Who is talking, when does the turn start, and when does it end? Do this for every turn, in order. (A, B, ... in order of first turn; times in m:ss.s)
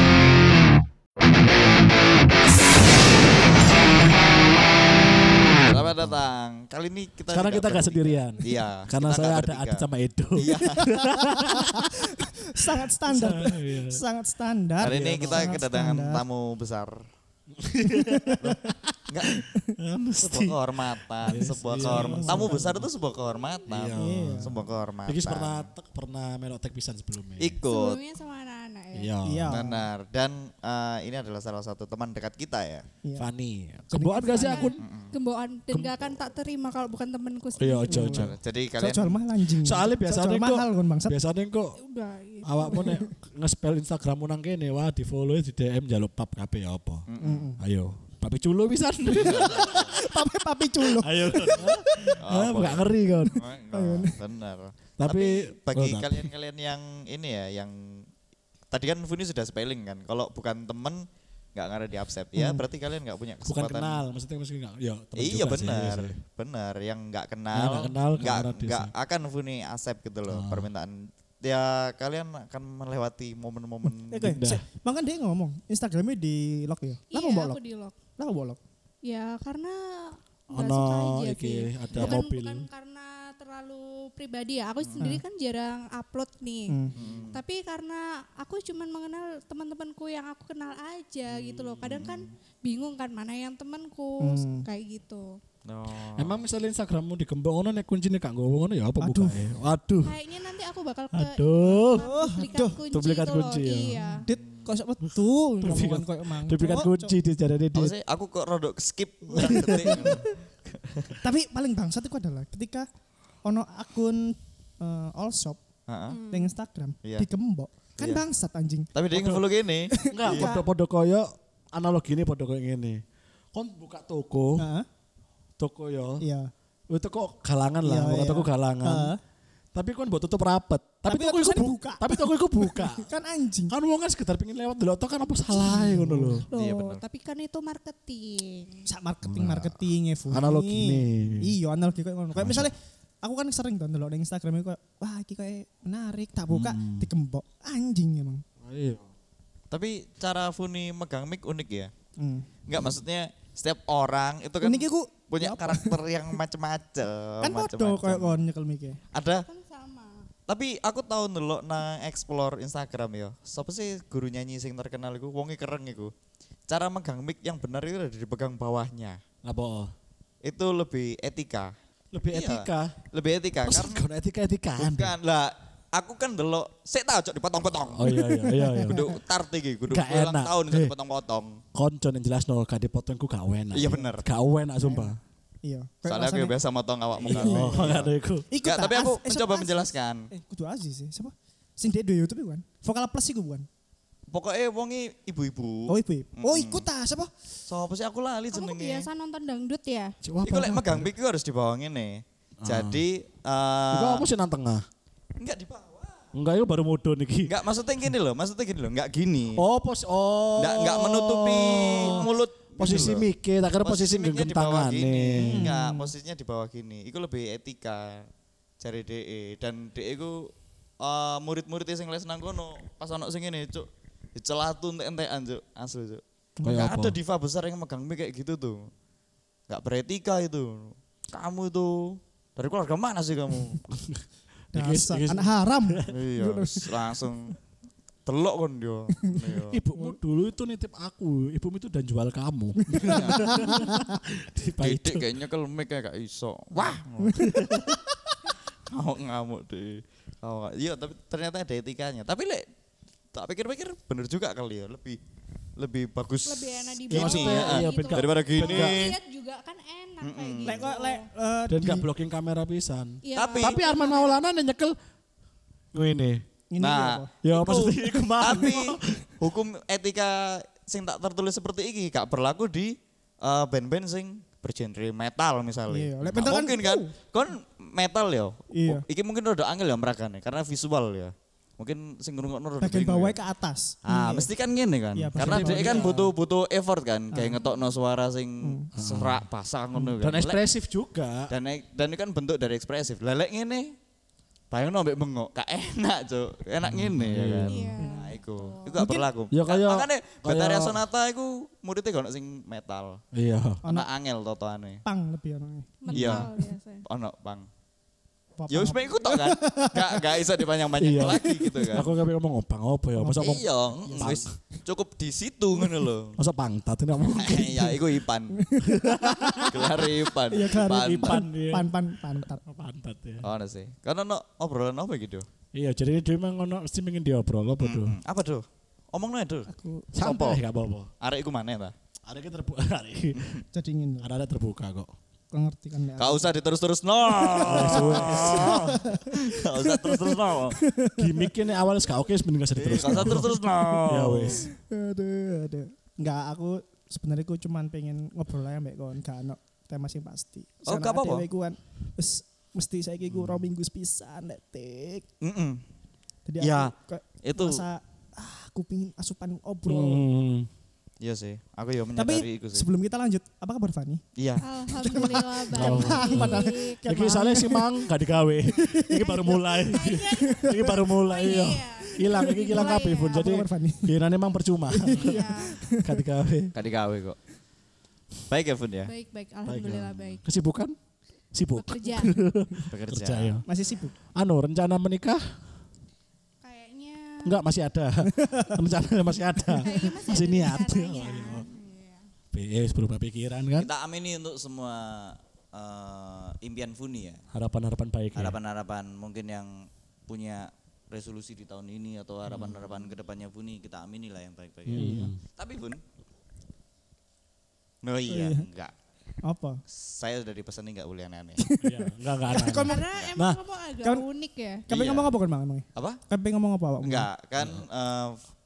0:05.6-0:09.8 A
0:05.7-0:06.2 B
0:07.3-0:12.1 B
0:10.4-0:10.9 A
0:10.8-0:16.2 C
0:13.1-0:14.0 B
0:14.8-0:15.6 B
0:14.8-0:17.0 A
0:17.6-0:20.6 B
0:18.0-0:18.4 C
0:18.4-0:19.4 A
0:20.2-0:25.7 A
0:21.2-0:22.8 B
0:21.9-0:22.6 C
0:23.7-0:27.6 B
0:24.0-0:24.6 C
0:27.4-0:28.0 A
0:27.7-0:29.1 D
0:29.0-0:29.6 B
0:29.2-0:29.9 C
0:29.5-0:32.9 A
0:33.2-0:34.8 B
0:33.9-0:34.7 C
0:34.3-0:38.2 D
0:34.8-0:35.1 A
0:37.6-0:38.3 B
0:37.9-0:41.2 C
0:38.1-0:39.2 A
0:39.6-0:41.8 B
0:41.8-0:43.0 D
0:42.4-0:47.1 B
0:42.7-0:43.1 C
0:47.1-0:47.5 A
0:47.2-0:47.6 C
0:47.6-0:50.3 B
0:49.1-0:50.0 A
0:49.2-0:52.2 C
0:50.8-0:53.4 B
0:52.2-0:58.1 A
0:53.2-0:54.2 C
0:55.0-0:56.3 B
0:58.7-1:04.0 A
1:02.4-1:02.6 C
1:03.5-1:06.2 B
1:05.2-1:14.4 A
1:07.5-1:08.9 B
1:10.3-1:10.7 B
1:14.1-1:17.6 C
1:14.2-1:14.6 B
1:17.1-1:18.0 D
1:18.2-1:18.6 C
1:19.0-1:35.4 D
1:20.5-1:22.7 B
1:26.7-1:27.0 C
1:26.9-1:27.4 A
1:31.5-1:32.3 A
1:34.2-1:34.7 C
1:35.6-1:36.4 A
1:36.2-1:40.2 B
1:39.0-1:39.4 C
1:40.0-1:44.3 D
1:41.1-1:42.1 B
1:42.0-1:42.8 C
1:42.9-1:44.1 B
1:44.0-1:47.1 C
1:45.6-1:48.0 B
1:47.7-1:50.3 A
1:49.3-1:50.2 B
1:49.4-1:50.2 C
1:50.8-1:51.2 A
1:51.2-1:52.9 C
1:53.4-1:55.6 C
1:55.9-1:56.2 A
1:56.1-1:56.6 D
1:56.3-1:58.9 C
1:58.0-1:58.2 A
1:58.9-2:00.5 A
1:59.1-1:59.5 B
2:00.0-2:00.6 C
2:00.0-2:03.0 B
2:03.5-2:04.7 B
2:04.6-2:04.9 C
2:05.6-2:06.2 B
2:06.2-2:06.5 C
2:06.9-2:09.1 B
2:07.8-2:09.2 C
2:09.7-2:13.1 B
2:11.0-2:13.7 C
2:13.7-2:16.4 B
2:15.5-2:16.5 C
2:16.5-2:18.9 D
2:16.5-2:17.0 A
2:18.9-2:28.4 C
2:19.2-2:21.6 B
2:22.4-2:22.7 B
2:26.5-2:27.1 B
2:28.6-2:29.1 B
2:29.7-2:31.9 A
2:32.2-2:32.5 C
2:32.7-2:38.4 A
2:34.6-2:36.0 C
2:37.4-2:39.0 C
2:39.1-2:39.5 A
2:39.5-2:40.3 D
2:40.5-2:46.1 A
2:46.7-2:49.2 A
2:49.4-2:49.9 B
2:50.4-2:51.7 A
2:52.1-2:53.0 B
2:52.3-2:54.0 A
2:53.6-2:55.2 B
2:54.8-2:58.2 A
2:57.8-2:59.0 B
2:58.1-2:59.0 C
2:58.9-3:01.6 A
2:59.9-3:00.9 B
3:01.7-3:05.2 B
3:03.7-3:04.3 A
3:04.8-3:06.6 C
3:06.1-3:08.1 A
3:07.2-3:08.5 B
3:07.3-3:13.7 C
3:08.6-3:10.3 A
3:14.3-3:16.8 A
3:15.9-3:17.3 C
3:17.7-3:19.1 A
3:18.5-3:20.2 D
3:20.2-3:21.1 B
3:20.4-3:24.3 A
3:22.6-3:23.0 B
3:23.9-3:24.8 B
3:25.4-3:26.3 A
3:26.3-3:27.5 B
3:27.5-3:29.6 A
3:29.6-3:35.7 B
3:30.6-3:33.3 A
3:31.9-3:32.2 C
3:33.8-3:38.3 A
3:35.4-3:36.1 C
3:38.8-3:48.9 A
3:46.6-3:46.9 C
3:46.6-3:47.2 B
3:49.7-3:53.8 A
3:54.7-3:56.1 B
3:54.7-3:56.9 C
3:56.1-3:57.6 A
3:58.3-3:59.8 A
3:59.4-4:00.2 C
3:59.7-4:05.3 B
4:02.8-4:04.2 C
4:03.0-4:03.8 A
4:04.8-4:07.4 A
4:07.2-4:08.0 C
4:07.4-4:08.0 B
4:08.9-4:12.6 A
4:13.3-4:15.2 A
4:15.8-4:19.2 A
4:16.5-4:21.3 D
4:17.1-4:19.1 B
4:20.2-4:20.9 A
4:20.7-4:22.1 C
4:21.7-4:25.0 B
4:23.2-4:24.4 D
4:23.4-4:23.8 A
4:25.9-4:26.4 B
4:26.7-4:27.3 C
4:26.8-4:43.4 A
4:27.4-4:29.2 B
4:35.9-4:37.1 C
4:38.7-4:39.0 C
4:42.8-4:44.5 C
4:44.0-4:50.6 A
4:45.2-4:46.2 C
4:45.4-4:46.3 B
4:47.3-4:47.6 C
4:48.6-4:48.9 C
4:49.0-4:49.4 B
4:50.0-4:51.5 B
4:51.5-4:54.0 A
4:54.7-5:03.2 A
4:56.9-4:57.8 B
4:57.7-4:58.9 D
4:58.0-4:58.3 C
4:59.0-5:01.0 B
5:03.3-5:03.8 B
5:03.8-5:04.1 C
5:03.9-5:05.0 A
5:05.0-5:06.0 C
5:06.0-5:07.0 D
5:06.1-5:06.5 B
5:06.1-5:06.4 A
5:07.0-5:07.7 A
5:08.6-5:10.2 C
5:08.7-5:12.1 A
5:11.0-5:14.5 B
5:11.2-5:11.9 C
5:13.2-5:14.4 C
5:13.4-5:16.4 A
5:16.4-5:18.0 B
5:17.3-5:18.6 A
5:18.6-5:22.6 C
5:18.8-5:20.2 B
5:19.6-5:21.4 A
5:20.7-5:23.5 B
5:23.4-5:25.5 A
5:25.7-5:28.2 B
5:27.8-5:30.6 A
5:29.7-5:30.1 C
5:30.1-5:31.1 B
5:31.2-5:31.9 A
5:32.3-5:33.6 B
5:33.4-5:33.6 A
5:33.7-5:34.3 C
5:34.2-5:35.1 B
5:35.5-5:36.5 C
5:36.2-5:40.8 A
5:37.4-5:41.5 C
5:37.6-5:39.0 B
5:41.2-5:44.7 B
5:42.8-5:44.7 A
5:44.6-5:55.3 C
5:50.8-5:51.5 A
5:55.4-5:55.8 A
5:56.5-6:00.3 C
5:56.6-5:57.8 A
5:59.9-6:00.7 B
6:01.2-6:02.9 A
6:02.2-6:04.2 C
6:04.4-6:04.6 A
6:04.6-6:07.0 D
6:04.9-6:08.1 C
6:05.7-6:16.7 B
6:08.7-6:14.1 C
6:09.9-6:13.5 D
6:14.9-6:16.2 C
6:15.1-6:15.8 D
6:16.7-6:17.4 A
6:18.5-6:19.1 A
6:19.1-6:20.4 D
6:19.7-6:21.0 B
6:21.5-6:23.6 B
6:21.8-6:22.4 D
6:22.9-6:23.6 A
6:23.7-6:24.2 C
6:23.7-6:24.0 D
6:24.4-6:25.5 B
6:26.6-6:27.6 D
6:27.4-6:31.7 B
6:28.3-6:28.8 C
6:29.6-6:29.9 C
6:29.8-6:32.2 D
6:32.5-6:33.9 B
6:33.8-6:37.4 A
6:37.5-6:38.6 B
6:38.4-6:46.0 A
6:44.9-6:45.4 B
6:44.9-6:45.3 C
6:48.0-6:48.9 A
6:48.3-6:48.7 C
6:49.4-6:49.8 C
6:49.9-6:51.6 A
6:51.6-6:53.1 C
6:51.8-6:53.6 B
6:52.7-6:54.8 D
6:54.9-6:57.3 C
6:54.9-6:55.4 A
6:56.0-6:56.2 A
6:57.0-6:58.4 A
6:57.6-6:57.8 B